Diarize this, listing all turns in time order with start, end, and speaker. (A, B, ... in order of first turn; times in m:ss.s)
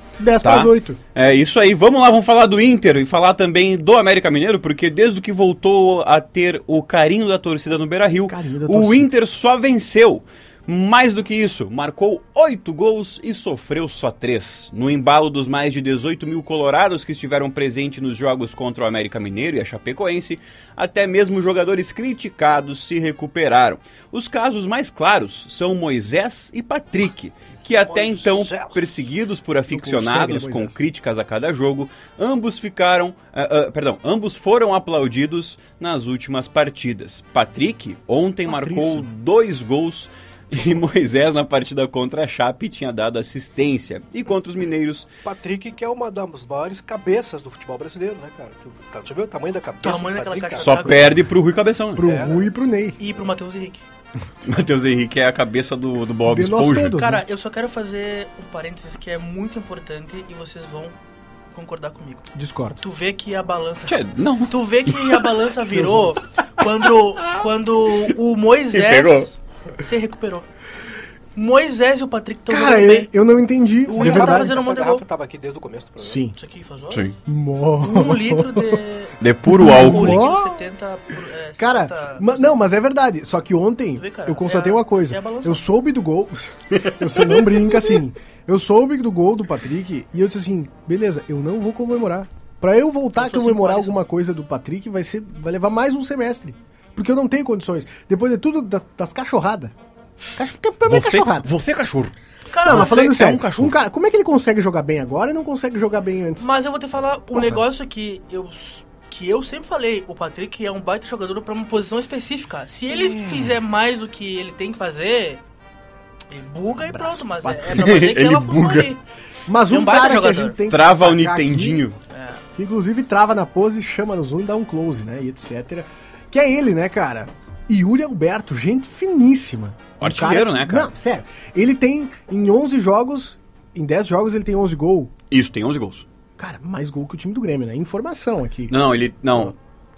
0:00.2-0:01.0 A
0:00.4-0:45.1 B
0:08.3-0:09.1 A
0:27.6-0:29.1 C
0:29.7-0:30.8 A
0:38.4-0:39.1 A
0:45.2-0:50.8 C
0:49.8-0:51.3 D
0:50.6-0:52.1 B
0:51.9-0:53.0 A
0:52.0-0:52.5 C
0:53.0-0:53.8 D
0:54.4-0:57.0 B
0:56.2-0:57.2 A
0:56.9-1:01.0 D
1:01.5-1:02.3 D
1:02.3-1:02.8 A
1:02.8-1:10.5 D
1:03.9-1:05.2 B
1:05.7-1:06.1 A
1:08.7-1:09.3 B
1:11.3-1:13.1 D
1:12.5-1:14.5 A
1:13.8-1:15.0 D
1:13.9-1:16.2 C
1:16.0-1:16.4 A
1:16.4-1:17.1 D
1:16.9-1:17.2 B
1:17.2-1:18.8 A
1:17.8-1:22.6 D
1:19.2-1:20.2 B
1:19.5-1:20.6 A
1:21.6-1:39.7 A
1:24.0-1:25.6 D
1:33.2-1:34.0 D
1:40.4-1:41.5 A
1:40.8-1:42.1 B
1:42.5-1:43.0 D
1:42.6-1:43.7 B
1:42.6-1:46.5 A
1:46.4-1:55.4 D
1:47.3-1:47.6 A
1:52.9-1:53.5 A
1:56.3-1:59.0 D
1:56.7-1:58.1 A
1:57.7-1:58.9 B
1:59.5-2:01.8 A
1:59.7-2:00.6 D
2:00.7-2:02.0 B
2:02.1-2:02.4 D
2:02.6-2:15.1 A
2:10.0-2:10.9 B
2:15.3-2:16.0 B
2:16.4-2:18.8 A
2:18.7-2:19.5 B